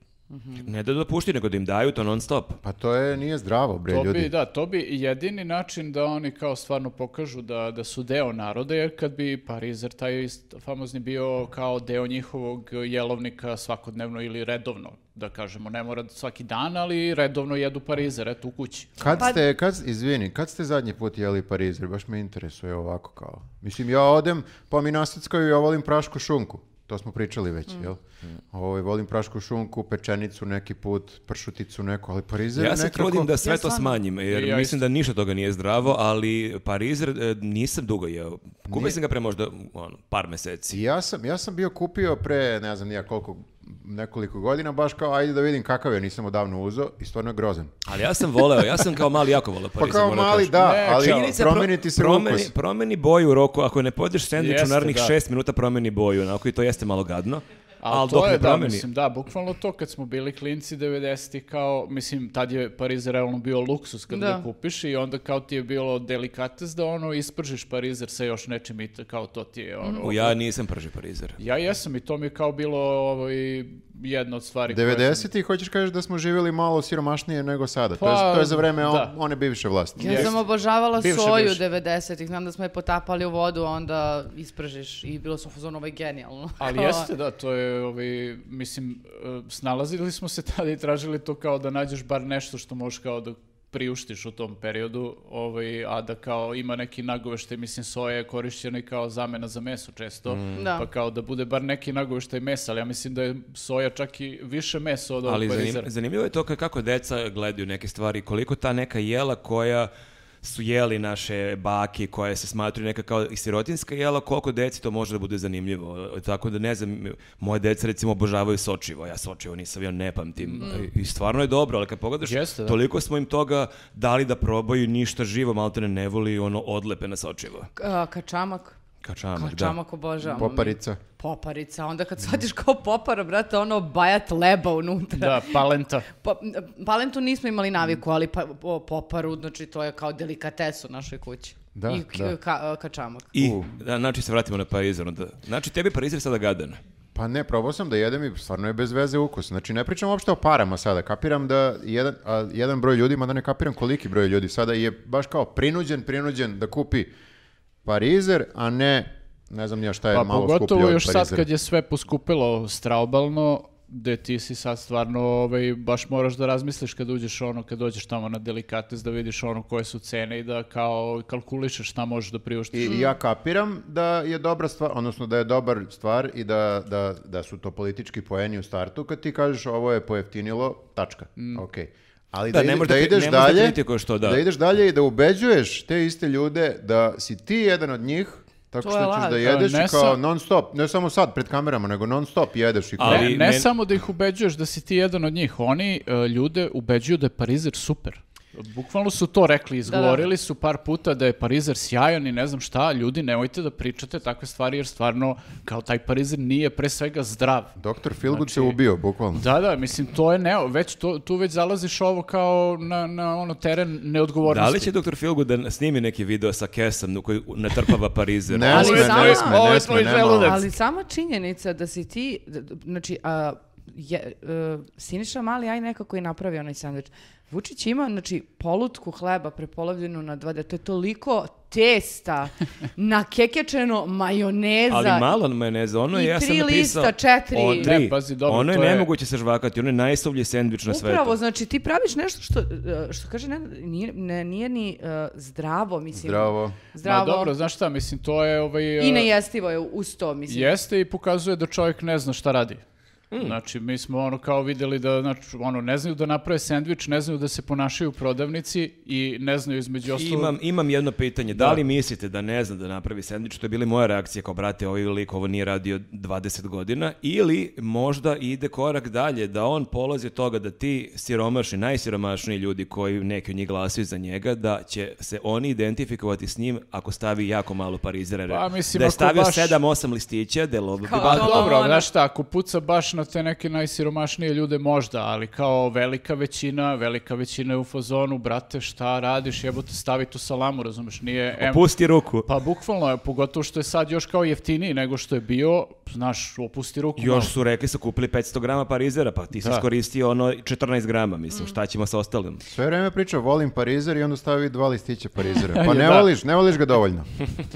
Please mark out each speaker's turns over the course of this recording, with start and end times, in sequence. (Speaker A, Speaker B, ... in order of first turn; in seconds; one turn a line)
Speaker A: 0.3-0.7
Speaker B: 0.6-2.6
Speaker C: 2.6-4.3
Speaker D: 3.9-19.1
Speaker C: 19.0-33.3
Speaker A: 19.1-19.4
Speaker B: 32.5-40.8
Speaker A: 33.4-34.0
Speaker D: 34.3-34.8
Speaker C: 38.7-39.0
Speaker C: 40.7-47.7
Speaker B: 47.9-58.9
Speaker C: 49.8-52.5
Speaker D: 50.6-51.3
Speaker D: 54.4-55.1
Speaker D: 57.8-70.4
Speaker A: 64.1-64.5
Speaker A: 69.8-70.1
Speaker B: 70.0-71.4
Speaker D: 71.4-75.2
Speaker C: 74.7-80.3
Speaker D: 78.0-79.1
Speaker A: 80.0-87.1
Speaker D: 80.0-80.4
Speaker D: 80.9-81.6
Speaker D: 86.6-105.9
Speaker B: 100.3-100.5
Speaker A: 100.5-100.9
Speaker B: 105.2-109.9
Speaker B: 110.4-127.7
Speaker A: 120.6-120.9
Speaker D: 122.2-122.8
Speaker A: 127.8-128.8
Speaker B: 129.0-129.8
Speaker A: 129.3-143.3
Speaker C: 130.2-131.0
Speaker D: 135.2-136.1
Speaker C: 141.7-142.3
Speaker B: 143.3-146.8
Speaker C: 143.4-143.7
Speaker C: 147.1-157.1
Speaker C: 157.8-161.5
Speaker D: 160.1-173.1
Speaker C: 172.7-193.3
Speaker D: 181.4-181.6
Speaker B: 182.5-184.4
Speaker A: 188.8-189.4
Speaker D: 189.3-190.2
Speaker B: 193.0-193.7
Speaker D: 193.0-207.8
Speaker A: 199.9-200.2
Speaker C: 207.8-209.5
Speaker D: 208.3-208.8
Speaker D: 209.3-214.9
Speaker B: 214.4-219.1
Speaker C: 218.5-220.7
Speaker D: 218.7-220.7
Speaker A: 218.7-219.6
Speaker A: 220.3-235.3
Speaker B: 234.9-241.3
Speaker A: 236.1-237.9
Speaker D: 237.7-239.1
Speaker A: 240.9-247.5
Speaker C: 246.1-246.8
Speaker D: 247.0-249.3
Speaker A: 249.0-250.7
Speaker D: 250.5-252.8
Speaker B: 253.3-253.6
Speaker D: 253.4-260.5
Speaker B: 260.1-281.8
Speaker D: 261.5-261.8
Speaker D: 278.5-279.8
Speaker A: 281.0-282.1
Speaker D: 281.1-291.9
Speaker B: 291.5-292.5
Speaker D: 292.4-297.5
Speaker B: 297.2-302.6
Speaker D: 299.6-299.8
Speaker C: 302.7-307.3
Speaker D: 305.7-306.3